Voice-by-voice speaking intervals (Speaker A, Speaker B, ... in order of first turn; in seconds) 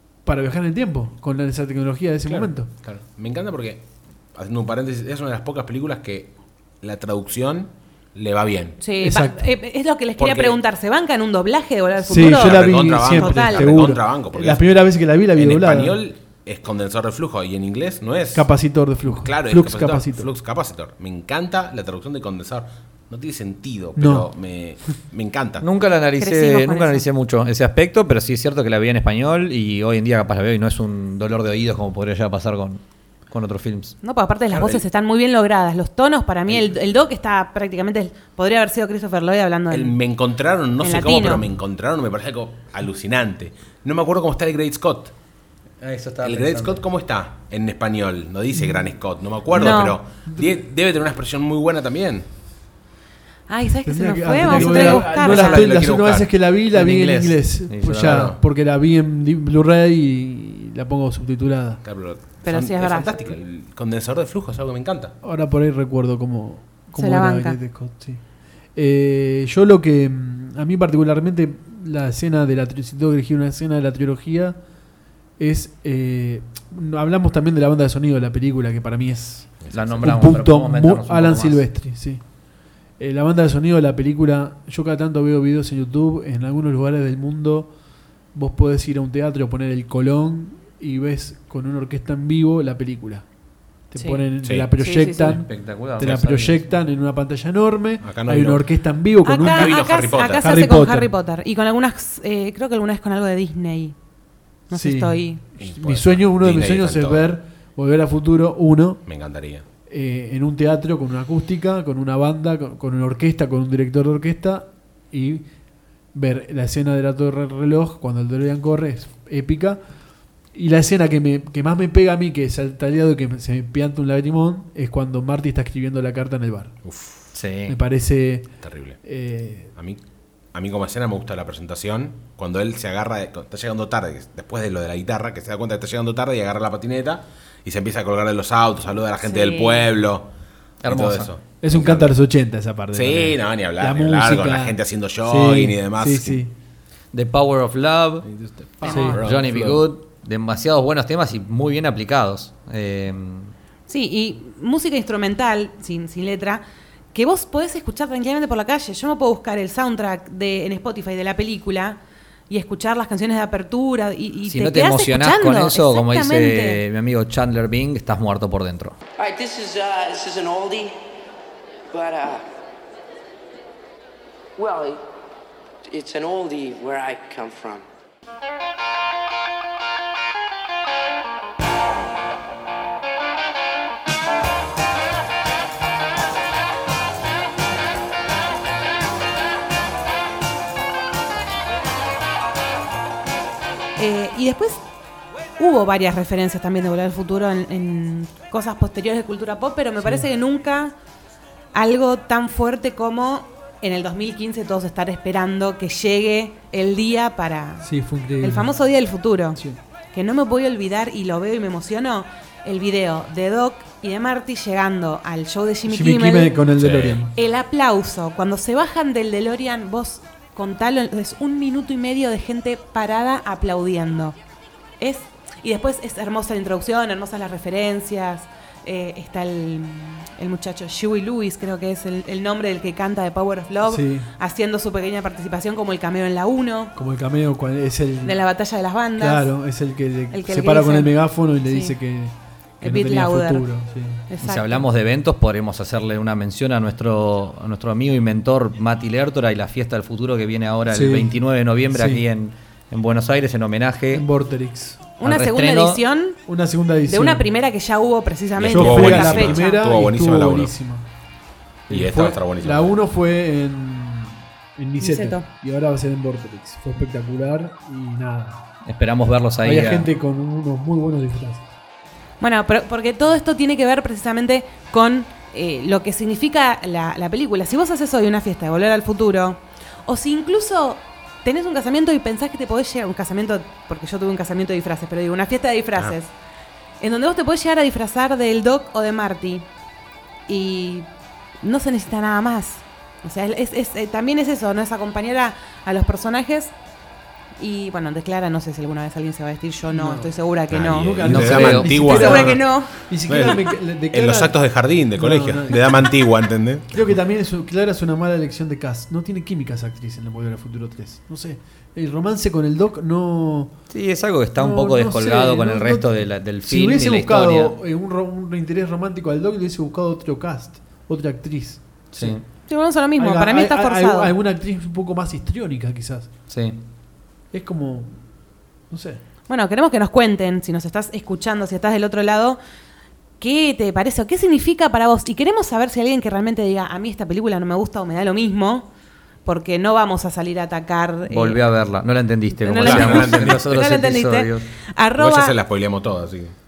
Speaker A: 0.2-2.7, 9.0-9.4, 12.0-16.0, 18.3-20.3, 23.9-24.3, 50.3-50.6, 53.8-61.8, 65.2-68.2, 68.7-74.6, 75.4-82.2, 83.0-87.7, 88.3-93.2, 93.9-101.1, 104.7-109.0, 109.9-115.5, 116.1-119.8, 120.5-126.7, 127.7-128.5, 129.0-129.7, 141.6-146.5, 148.9-149.2, 200.0-200.3, 207.8-208.7, 215.8-217.3, 233.8-234.3, 236.9-238.4, 239.2-244.2, 250.9-251.3, 251.9-252.2, 254.1-255.1, 256.5-257.5, 258.7-261.1, 261.9-268.6, 269.6-271.6, 299.9-300.4, 300.9-304.6, 305.1-306.2, 306.9-313.7, 314.6-322.4, 323.2-326.3, 327.5-328.1, 328.9-329.2
Speaker B: 2.3-8.8, 10.2-10.6, 12.1-14.8, 15.3-18.5, 19.1-25.6, 34.5-34.8, 39.7-45.1, 46.2-52.2, 54.5-57.3, 58.0-58.4, 61.8-65.1, 79.7-80.0, 98.0-98.6, 99.3-100.6, 105.6-107.2, 109.0-109.6, 126.8-127.3, 128.6-129.0, 130.5-140.3, 140.9-142.1, 142.9-146.4, 148.2-149.8, 216.8-217.2, 258.5-260.7, 261.9-262.9, 300.7-302.6, 303.3-307.0, 342.8-343.6, 345.2-346.5
Speaker C: 8.8-13.7, 26.2-27.0, 34.0-40.0, 40.8-41.4, 49.5-50.0, 53.5-55.7, 62.4-63.1, 67.0-67.6, 94.0-94.2, 94.8-95.4, 99.2-103.9, 104.7-105.4, 139.2-139.8, 153.9-156.6, 157.1-162.0, 162.5-166.8, 194.0-194.8, 195.6-200.9, 201.7-207.9, 208.4-209.6, 210.1-216.5, 217.3-224.3, 225.0-236.9, 238.2-239.5, 240.3-241.9, 242.8-243.7, 244.3-244.8, 255.2-256.4, 257.1-259.8, 265.0-265.4, 272.4-286.3, 287.0-289.6, 290.5-291.1, 291.6-296.7, 297.6-303.6, 322.7-324.3, 329.5-332.6, 333.4-338.9, 339.4-341.6, 342.6-345.6
Speaker D: 25.6-34.0, 45.8-46.8, 57.6-58.3, 79.7-81.6, 95.2-96.6, 127.3-127.8, 140.8-141.3, 147.1-148.3, 149.2-153.5, 164.5-168.9, 244.4-254.2, 255.2-256.0, 268.9-270.1, 301.2-301.9, 313.9-317.7, 322.1-322.4, 326.5-326.8, 341.3-344.7
Speaker E: 169.2-171.0, 171.9-172.5, 174.6-175.0, 175.9-177.8